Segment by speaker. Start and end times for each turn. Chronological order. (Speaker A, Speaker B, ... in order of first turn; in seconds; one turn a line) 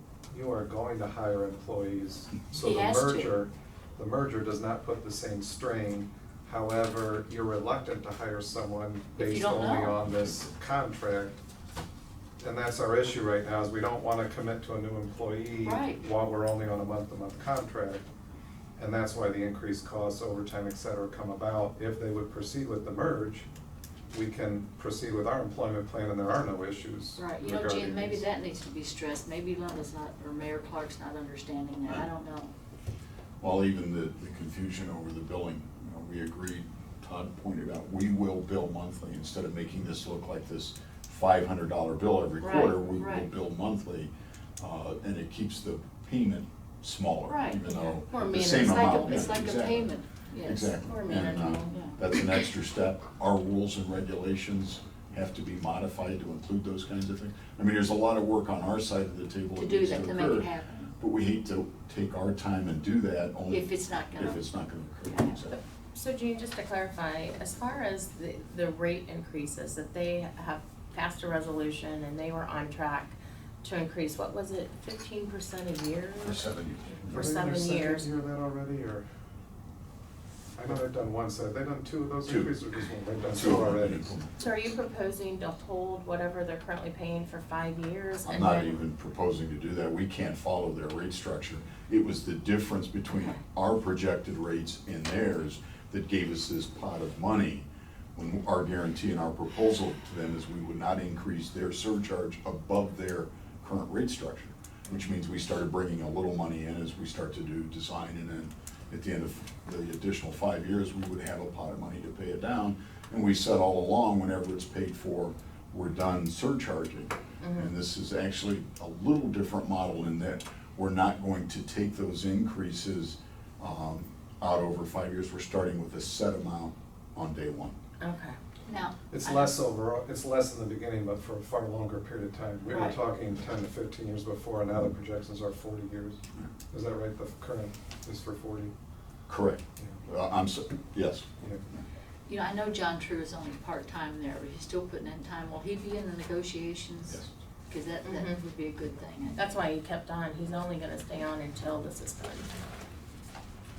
Speaker A: 0.3-11.4
Speaker B: 2.6-3.4
Speaker B: 9.2-10.0
Speaker A: 12.4-18.1
Speaker B: 15.6-16.0
Speaker A: 18.8-23.5
Speaker A: 24.1-28.2
Speaker B: 27.1-32.5
Speaker C: 33.4-65.6
Speaker B: 42.4-43.3
Speaker B: 47.2-50.7
Speaker D: 47.7-48.6
Speaker D: 50.8-51.8
Speaker B: 51.7-52.0
Speaker B: 59.5-60.9
Speaker B: 63.5-64.4
Speaker B: 65.0-65.4
Speaker D: 65.5-76.4
Speaker C: 76.2-77.3
Speaker D: 77.1-78.1
Speaker A: 77.1-79.0
Speaker A: 80.5-84.1
Speaker C: 82.2-82.5
Speaker C: 83.3-84.3
Speaker D: 84.4-88.8
Speaker C: 88.2-127.7
Speaker D: 117.4-117.7
Speaker D: 128.0-128.4
Speaker B: 128.7-129.6
Speaker A: 129.1-138.7
Speaker B: 132.7-133.0
Speaker C: 139.3-141.2
Speaker A: 141.4-141.7
Speaker B: 142.3-149.6
Speaker D: 148.0-148.4
Speaker D: 149.3-152.5